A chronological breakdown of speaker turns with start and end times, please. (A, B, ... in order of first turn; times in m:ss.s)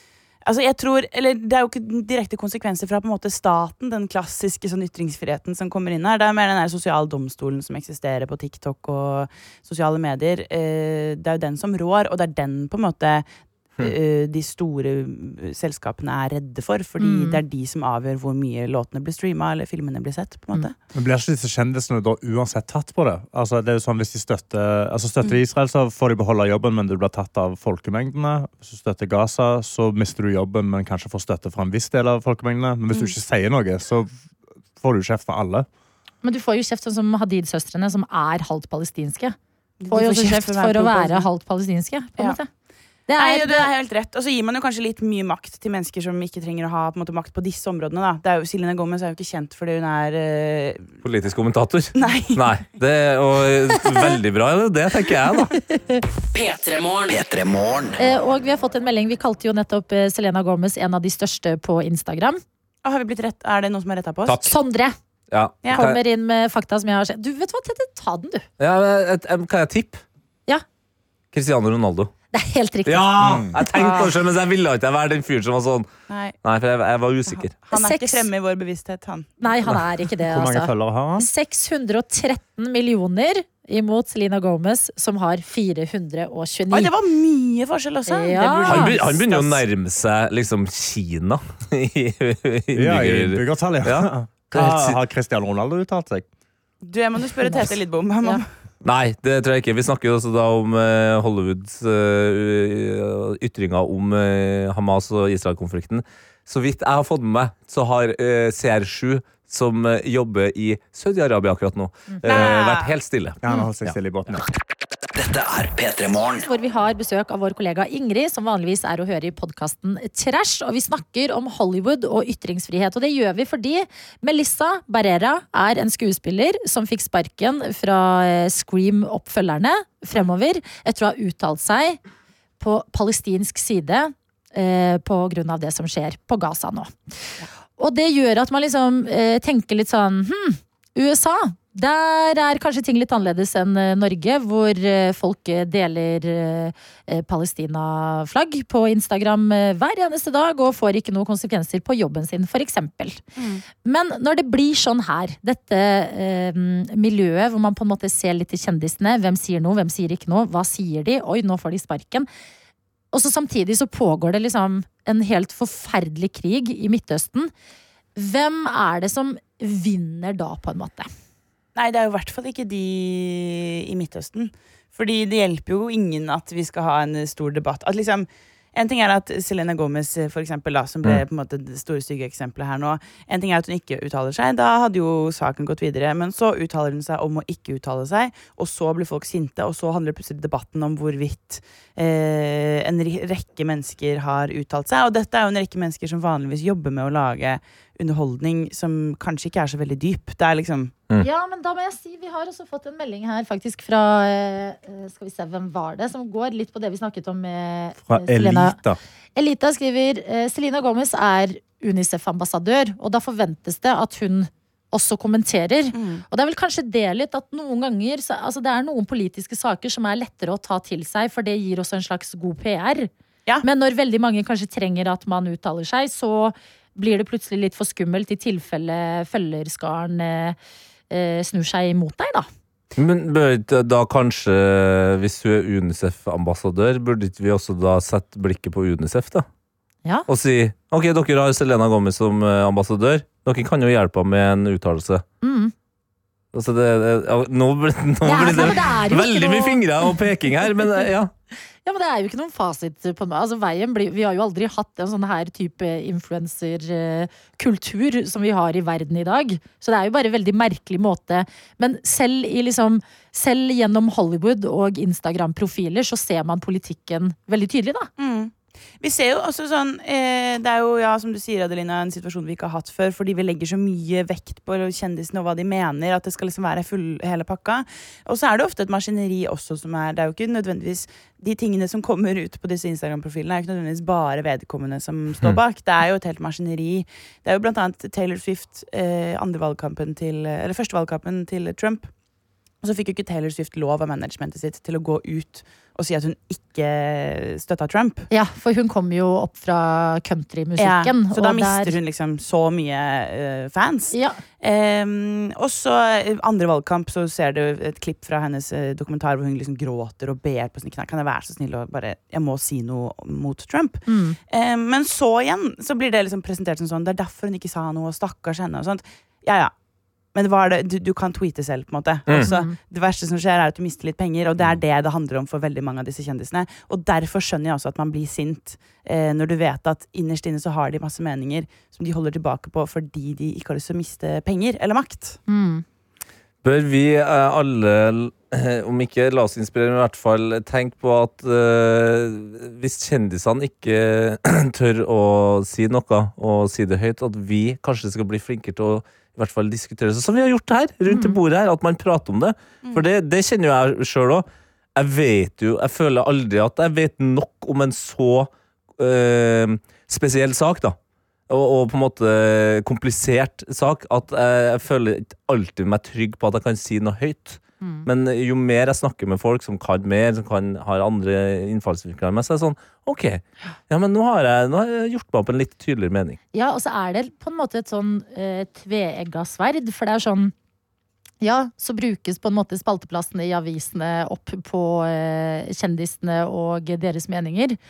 0:00.4-0:13.2 A
0:13.8-0:20.7 A
0:17.0-0:17.4 B
0:20.9-0:34.1 C
0:34.7-0:35.7 C
0:36.2-0:39.4 B
0:39.8-0:41.3 A
0:39.9-0:42.5 B
0:43.1-0:43.7 B
0:43.2-0:50.8 A
0:51.0-0:55.5 D
0:52.0-0:52.4 A
0:55.5-0:56.0 B
0:56.3-0:58.0 E
0:58.0-1:02.4 B
1:02.8-1:04.5 A
1:04.4-1:04.9 B
1:05.3-1:06.0 D
1:05.7-1:08.4 B
1:08.6-1:10.0 D
1:11.3-1:12.1 D
1:12.3-1:13.4 B
1:12.9-1:15.9 D
1:13.2-1:13.6 C
1:13.7-1:14.1 A
1:16.1-1:16.3 A
1:16.4-1:17.5 D
1:17.3-1:19.4 A
1:17.7-1:18.3 B
1:19.4-1:26.9 B
1:19.7-1:21.3 C
1:26.7-1:29.6 A
1:28.1-1:29.0 B
1:28.6-1:35.0 D
1:32.7-1:36.2 C
1:36.8-1:38.4 A
1:38.8-1:53.9 D
1:52.2-1:52.9 A
1:53.4-1:54.4 C
1:55.1-1:56.4 E
1:56.4-2:12.0 B
2:12.6-2:16.9 B
2:17.8-2:33.2 B
2:33.4-2:33.6 A
2:33.8-2:42.3 B
2:43.1-2:47.5 B
2:48.2-2:51.1 B
2:51.8-3:20.9 A
3:21.2-3:28.8 B
3:28.0-3:29.0 C
3:29.4-3:43.1 B
3:35.9-3:36.2 A
3:43.6-3:50.6 B
3:51.1-3:52.5 B
3:53.0-3:59.4 D
4:00.3-4:05.2 D
4:05.4-4:05.7 B
4:06.5-4:11.3 D
4:08.2-4:09.8 B
4:11.8-4:28.1 B
4:28.2-4:52.1 A
4:52.8-4:58.3 A
4:58.3-5:02.0 B
5:00.8-5:19.7 A
5:04.1-5:04.4 B
5:14.1-5:14.4 B
5:20.3-5:35.4 A
5:22.3-5:22.5 D
5:22.3-5:22.8 B
5:35.5-5:35.8 B
5:36.6-5:54.4 D
5:51.1-5:51.4 B
5:55.0-6:01.0 D
6:01.5-6:16.4 D
6:07.8-6:08.1 B
6:16.5-6:20.5 B
6:21.4-6:27.8 B